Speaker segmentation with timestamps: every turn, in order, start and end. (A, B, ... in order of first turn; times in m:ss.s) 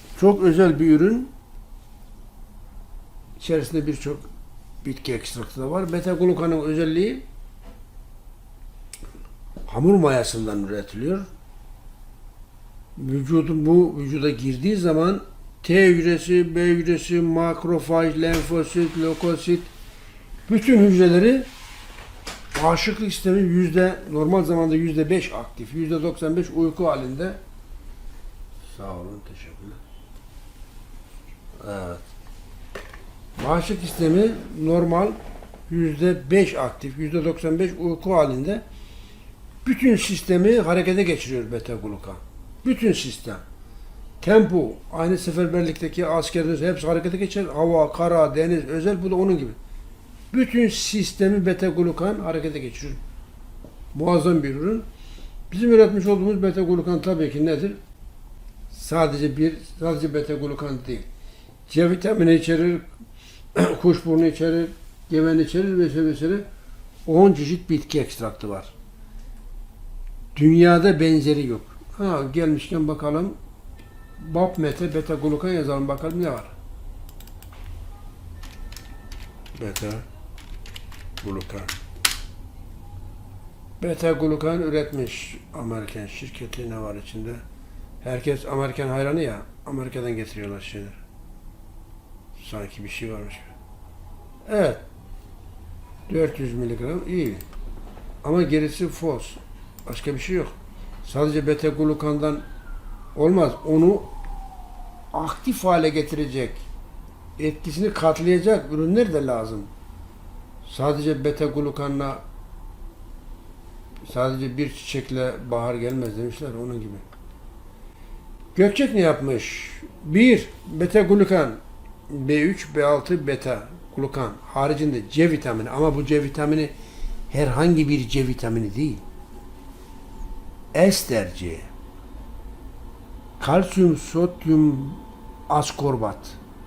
0:00.2-0:01.3 A
0:03.4-0:04.3 A
0:04.8-0:07.2 A
0:09.6-0:11.2 A
0:13.0-0:19.7 A
0:20.5-0:21.5 A
0:22.5-0:27.4 A
0:28.6-0:29.8 A
0:31.6-0:32.1 A
0:33.4-0:38.6 A
0:39.6-0:43.4 A
0:44.2-0:49.6 A
0:50.3-0:53.0 A
0:53.9-0:54.8 A
0:55.5-0:57.8 A
0:58.7-1:01.1 A
1:01.7-1:02.9 A
1:03.5-1:06.4 A
1:07.0-1:08.7 A
1:10.3-1:13.4 A
1:14.2-1:16.5 A
1:19.5-1:20.0 A
1:21.2-1:21.8 A
1:23.8-1:27.4 A
1:28.0-1:31.0 A
1:32.4-1:33.5 A
1:34.4-1:34.8 A
1:36.1-1:37.4 A
1:38.2-1:42.4 A
1:43.2-1:44.1 A
1:45.1-1:46.6 A
1:47.4-1:49.7 A
1:50.6-1:52.2 A
1:54.0-1:57.0 A
1:58.5-2:06.7 A
2:07.3-2:09.0 A
2:10.7-2:11.7 A
2:13.4-2:16.4 A